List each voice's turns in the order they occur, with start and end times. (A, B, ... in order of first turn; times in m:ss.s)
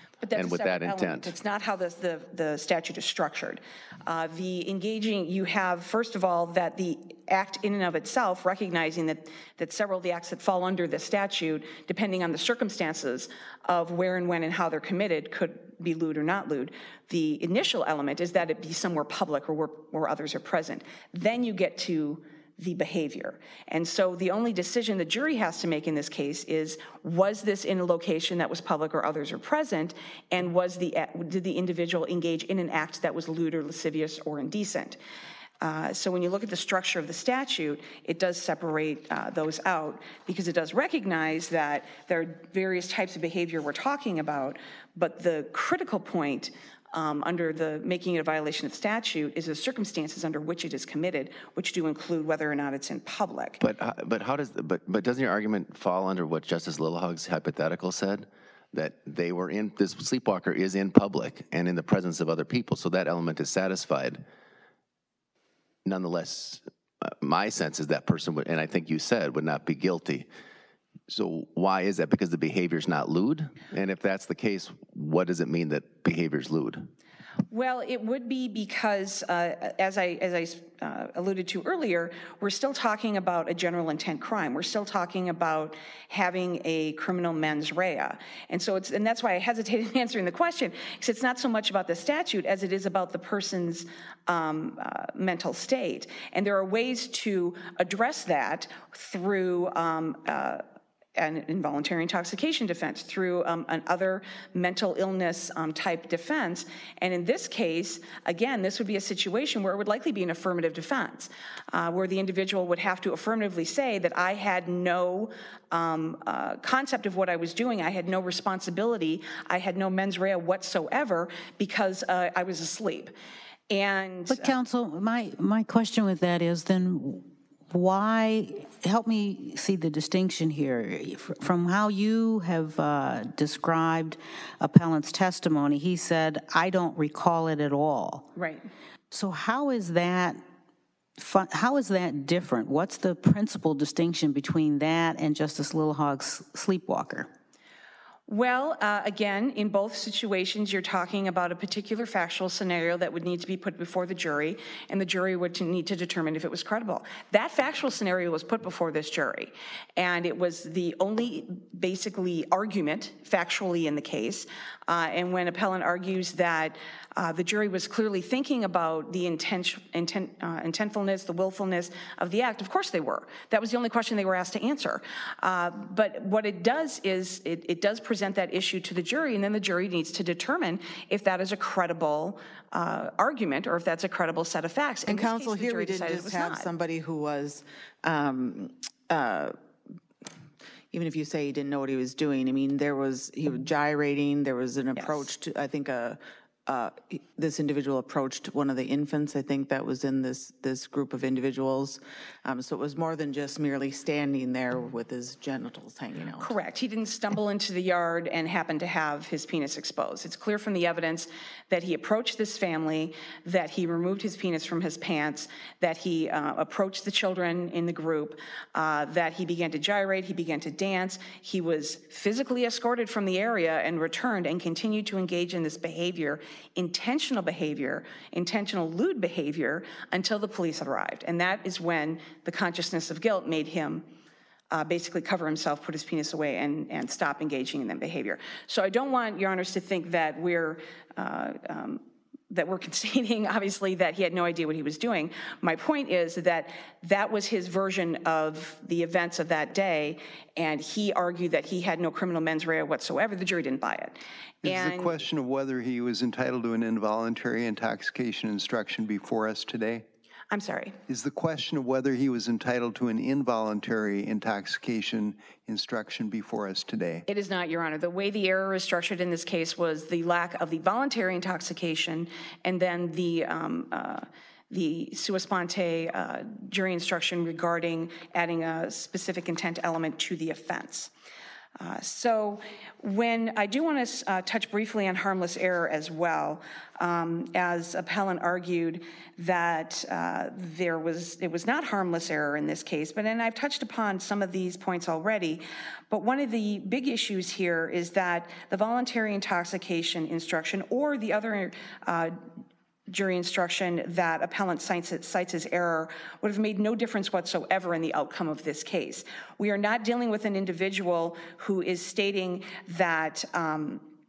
0:00.2-0:35.0 A
0:00.4-0:01.3 B
0:35.6-0:53.6 A
0:53.6-1:04.2 B
1:05.8-1:10.3 B
1:11.1-1:16.9 B
1:17.5-1:40.6 A
1:41.2-2:03.1 A
2:03.7-2:04.5 A
2:04.3-2:18.3 C
2:18.4-2:18.7 A
2:19.1-2:20.4 C
2:21.2-2:27.3 C
2:28.3-3:06.7 A
3:05.1-3:09.6 D
3:10.9-3:26.6 D
3:15.0-3:15.2 A
3:26.4-3:54.1 A
3:54.7-4:15.2 A
4:14.6-4:20.0 E
4:20.5-4:21.0 A
4:21.1-4:27.2 E
4:27.3-4:41.1 A
4:41.8-5:02.4 A
5:03.1-5:14.1 A